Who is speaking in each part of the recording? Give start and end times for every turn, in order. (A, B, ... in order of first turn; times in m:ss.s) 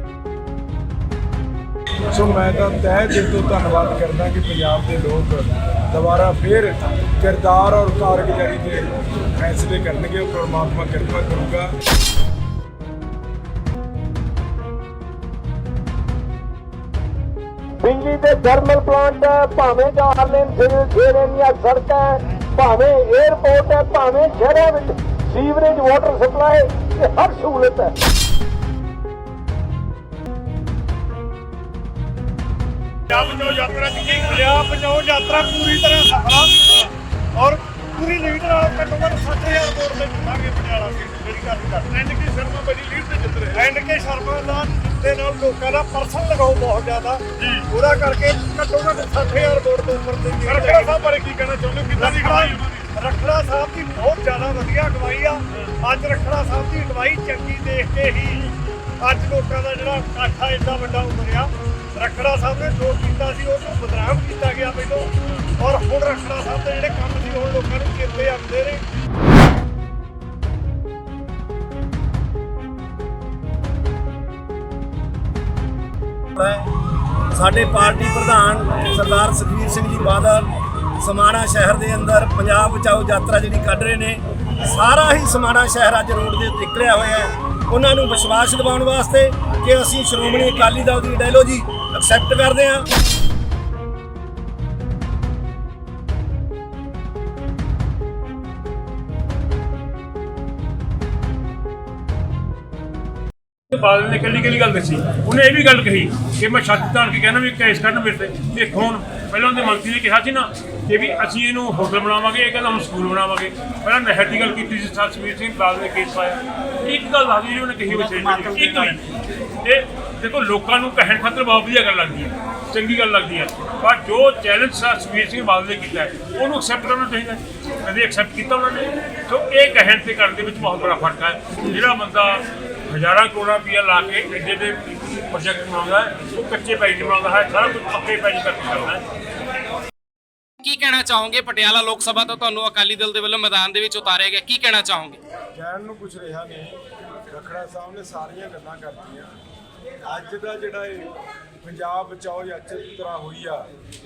0:02.1-0:11.7 A
0:17.8-0:27.9 B
0:33.1-0:36.6 C
0:37.4-0:58.4 C
0:59.0-1:08.8 C
1:16.4-1:16.7 D
1:17.3-1:32.9 D
1:43.7-1:59.0 E
1:59.6-2:19.0 E
2:20.6-2:25.2 F
2:25.5-2:29.3 A
2:30.0-2:33.7 A